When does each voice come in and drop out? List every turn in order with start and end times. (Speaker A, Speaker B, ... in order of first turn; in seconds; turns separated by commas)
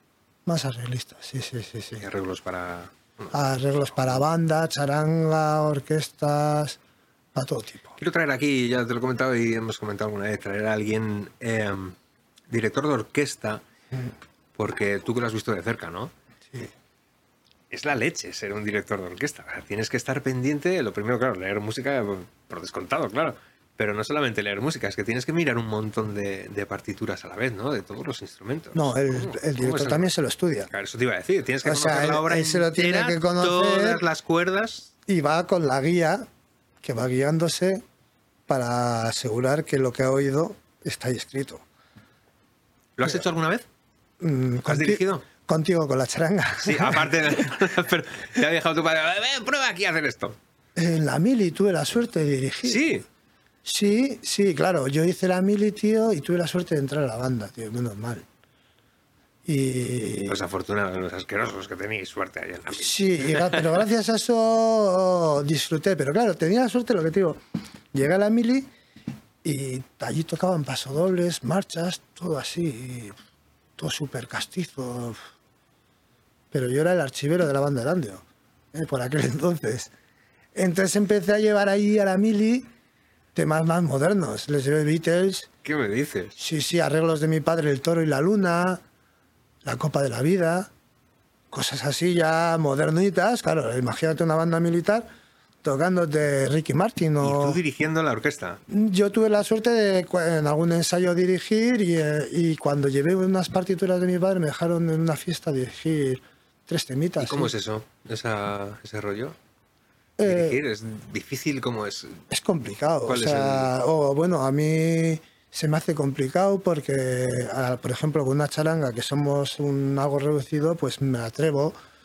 Speaker A: 0.5-2.0, Speaker B: 2.0-4.2, Speaker A: 3.3-6.8, Speaker A: 7.3-7.9, Speaker B: 8.0-11.9, Speaker B: 12.5-13.6, Speaker B: 14.6-16.1, Speaker B: 17.7-30.1, Speaker A: 28.7-30.7, Speaker B: 30.7-34.9, Speaker A: 31.6-34.0, Speaker A: 35.1-36.2, Speaker A: 36.8-37.8, Speaker A: 38.5-41.6, Speaker B: 43.0-43.6, Speaker A: 44.2-47.5, Speaker B: 44.6-45.2, Speaker B: 46.6-50.4, Speaker A: 50.8-52.8, Speaker B: 52.6-53.0, Speaker A: 53.6-58.2, Speaker A: 59.5-60.4, Speaker B: 60.2-63.8, Speaker A: 62.7-67.4, Speaker A: 67.9-68.7, Speaker A: 69.4-73.2, Speaker A: 73.8-75.2, Speaker A: 76.5-79.9, Speaker A: 80.5-82.7, Speaker A: 83.3-85.5, Speaker B: 85.6-86.3, Speaker A: 86.4-88.8, Speaker A: 89.6-90.7, Speaker A: 91.5-95.1, Speaker A: 95.6-97.6, Speaker B: 97.2-98.6, Speaker A: 98.7-107.5, Speaker B: 107.2-109.3, Speaker A: 110.2-110.6, Speaker B: 110.2-112.2, Speaker A: 112.3-121.8, Speaker B: 113.0-113.7